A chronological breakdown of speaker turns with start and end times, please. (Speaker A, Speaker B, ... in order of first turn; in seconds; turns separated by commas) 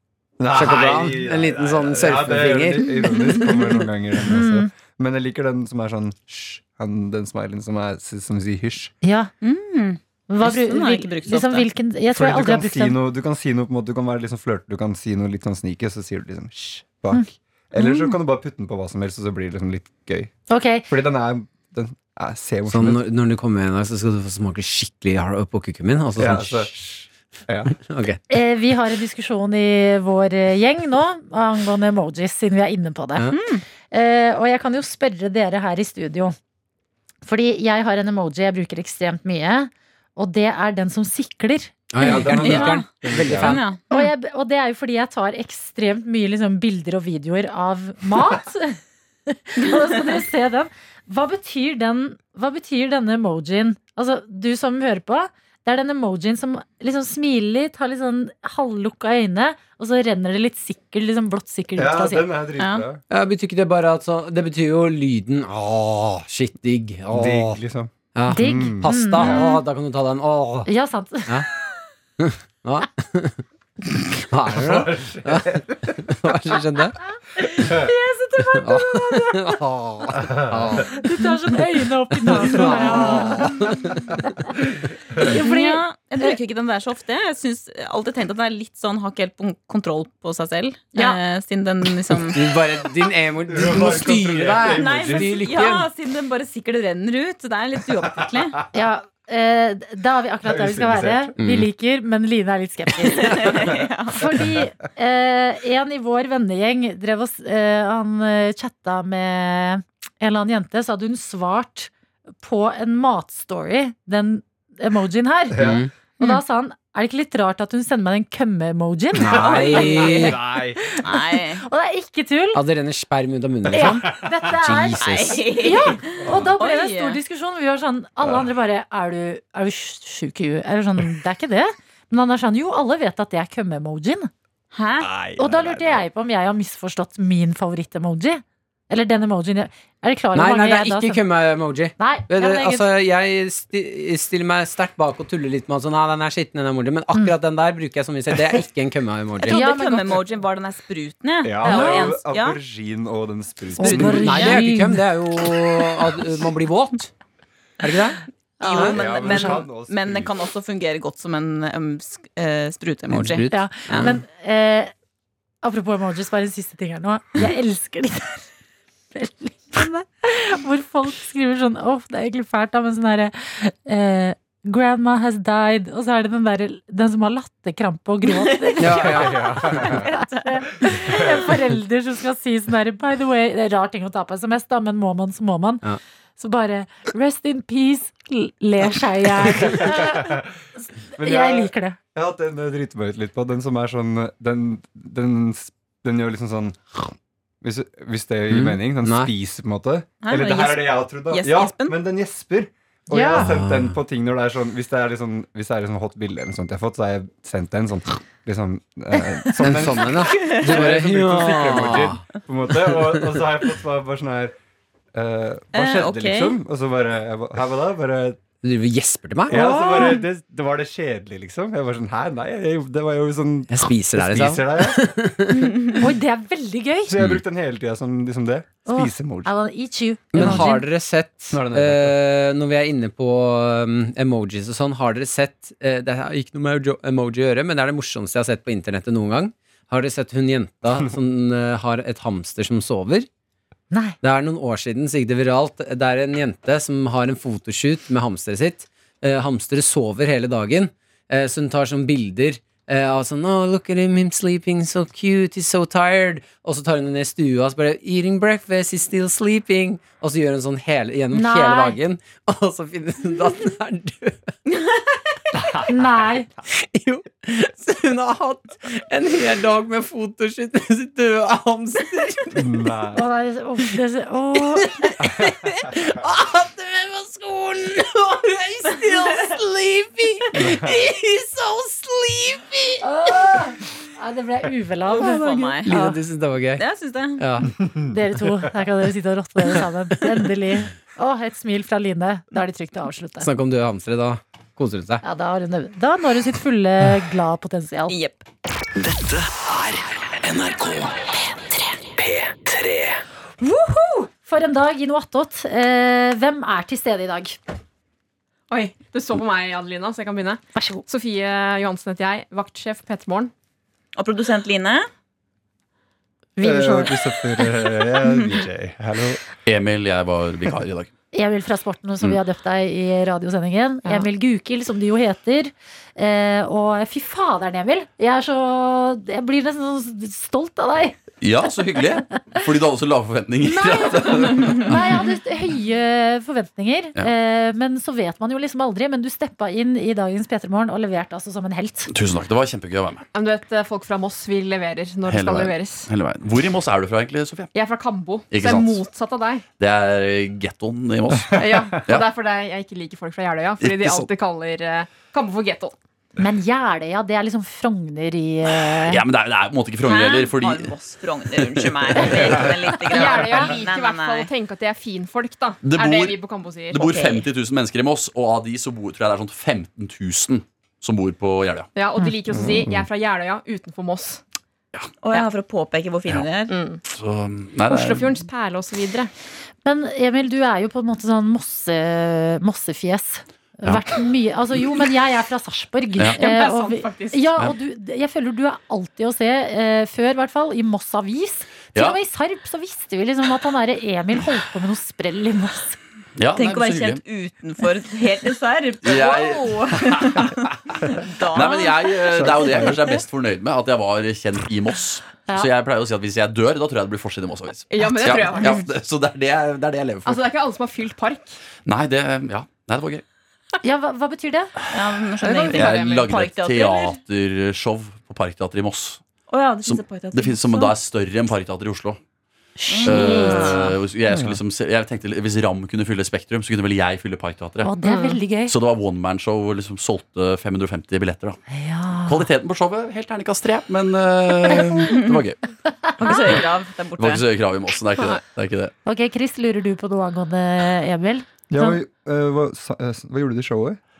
Speaker A: 0.4-8.9, Speaker B: 0.5-3.8, Speaker C: 4.3-4.7, Speaker C: 9.0-9.3, Speaker D: 9.4-11.7, Speaker C: 10.3-13.0, Speaker A: 12.1-20.3, Speaker C: 20.5-20.9, Speaker A: 20.9-23.0, Speaker B: 22.7-26.8, Speaker A: 26.2-27.7, Speaker B: 27.7-28.2, Speaker C: 28.3-33.3, Speaker D: 33.3-33.6, Speaker C: 33.9-36.4, Speaker C: 37.2-42.3, Speaker B: 41.9-43.6, Speaker A: 42.0-43.6, Speaker D: 42.2-44.1, Speaker C: 43.9-62.3, Speaker A: 61.8-63.0, Speaker D: 62.6-62.9, Speaker B: 63.1-67.6, Speaker A: 67.1-69.4, Speaker B: 68.1-70.7, Speaker C: 68.3-69.6, Speaker C: 70.7-71.4, Speaker B: 72.2-73.4, Speaker B: 74.3-77.0, Speaker A: 74.5-76.3, Speaker C: 77.4-79.6, Speaker B: 78.5-81.0, Speaker A: 80.2-80.8, Speaker C: 80.9-83.8, Speaker B: 82.2-84.1, Speaker C: 84.3-84.5, Speaker C: 85.2-86.3, Speaker D: 85.2-92.4, Speaker B: 92.3-95.9, Speaker A: 93.5-95.6, Speaker D: 94.6-98.6, Speaker C: 98.7-111.9, Speaker A: 100.4-101.3, Speaker B: 101.4-101.7, Speaker D: 103.2-104.2, Speaker A: 104.2-104.6, Speaker C: 112.4-122.6, Speaker A: 115.5-115.8, Speaker B: 115.6-115.9, Speaker B: 119.1-120.4, Speaker A: 119.3-120.8, Speaker D: 119.9-120.3, Speaker D: 121.0-121.6, Speaker B: 122.5-125.4, Speaker C: 123.7-134.3, Speaker D: 125.0-127.2, Speaker A: 126.2-126.5, Speaker D: 134.7-135.1, Speaker A: 135.0-136.0, Speaker C: 135.4-141.2, Speaker B: 140.3-149.6, Speaker C: 142.0-142.9, Speaker D: 149.4-152.6, Speaker C: 149.4-150.2, Speaker A: 151.4-154.4, Speaker C: 151.6-152.1, Speaker C: 153.8-155.0, Speaker D: 153.8-154.6, Speaker B: 153.9-157.1, Speaker B: 157.8-158.2, Speaker C: 158.6-159.6, Speaker D: 158.6-164.1, Speaker A: 158.8-160.3, Speaker B: 163.1-164.2, Speaker C: 163.5-164.9, Speaker C: 165.6-168.4, Speaker C: 169.1-185.8, Speaker D: 178.4-179.2, Speaker B: 178.8-179.8, Speaker A: 179.2-180.0, Speaker D: 179.8-180.5, Speaker A: 181.1-181.4, Speaker C: 186.4-190.4, Speaker A: 189.4-190.5, Speaker A: 191.1-197.1, Speaker C: 191.2-192.0, Speaker A: 197.6-214.5, Speaker B: 198.5-199.3, Speaker D: 200.2-202.0, Speaker C: 203.1-203.5, Speaker B: 203.3-203.9, Speaker B: 209.6-212.2, Speaker B: 212.9-213.2, Speaker A: 215.1-218.4, Speaker D: 215.7-216.6, Speaker B: 218.6-219.6, Speaker A: 219.5-225.3, Speaker C: 219.5-220.2, Speaker B: 223.7-225.8, Speaker C: 225.9-227.1, Speaker A: 227.1-229.5, Speaker C: 228.9-230.8, Speaker B: 230.3-243.3, Speaker A: 231.5-232.2, Speaker C: 243.9-244.2, Speaker B: 244.2-264.4, Speaker C: 261.3-262.0, Speaker C: 265.9-266.5, Speaker B: 266.7-272.7, Speaker A: 272.5-273.2, Speaker C: 273.1-275.1, Speaker B: 274.7-283.0, Speaker A: 275.2-275.5, Speaker A: 280.6-280.9, Speaker C: 283.0-286.2, Speaker D: 285.1-285.9, Speaker B: 285.8-286.8, Speaker D: 286.8-287.4, Speaker B: 287.4-287.7, Speaker C: 288.1-293.5, Speaker B: 293.4-295.2, Speaker C: 295.2-298.1, Speaker D: 298.1-298.4, Speaker E: 298.9-303.2, Speaker C: 303.6-307.6, Speaker F: 308.7-313.5, Speaker C: 310.7-311.0, Speaker D: 314.1-315.1, Speaker C: 316.6-317.2, Speaker A: 316.6-319.4, Speaker G: 319.6-321.1, Speaker C: 321.3-331.2, Speaker G: 331.4-335.2, Speaker C: 333.6-342.1, Speaker G: 342.1-343.2, Speaker F: 343.3-346.1, Speaker G: 345.3-347.7, Speaker F: 347.7-349.6, Speaker G: 348.5-349.0, Speaker G: 349.8-352.3, Speaker F: 351.5-355.9, Speaker G: 353.8-354.3, Speaker C: 356.4-359.2, Speaker G: 358.7-360.9, Speaker D: 360.0-364.5, Speaker G: 361.6-362.7, Speaker F: 363.1-367.1, Speaker G: 365.8-366.4, Speaker G: 366.9-371.9, Speaker D: 367.0-367.4, Speaker F: 371.9-374.4, Speaker A: 372.5-373.0, Speaker D: 375.2-376.7, Speaker F: 376.7-377.0, Speaker G: 377.1-378.4, Speaker F: 377.9-379.3, Speaker C: 379.8-396.0, Speaker F: 386.4-387.5, Speaker G: 396.4-397.2, Speaker D: 396.5-402.9, Speaker G: 399.0-400.7, Speaker G: 401.5-410.4, Speaker A: 402.4-402.7, Speaker F: 407.9-408.9, Speaker F: 410.2-411.6, Speaker G: 411.8-413.2, Speaker C: 413.8-414.7, Speaker D: 414.9-417.2, Speaker F: 415.4-416.4, Speaker G: 415.7-419.2, Speaker D: 419.5-420.9, Speaker G: 419.8-422.2, Speaker C: 422.8-423.9, Speaker D: 422.9-423.9, Speaker G: 423.0-427.9, Speaker C: 427.8-428.7, Speaker F: 428.0-428.4, Speaker G: 428.6-431.6, Speaker C: 431.7-432.5, Speaker G: 432.2-435.6, Speaker D: 435.1-435.4, Speaker D: 436.2-437.4, Speaker G: 436.3-436.6, Speaker G: 437.2-438.9, Speaker C: 439.0-441.9, Speaker A: 441.7-444.0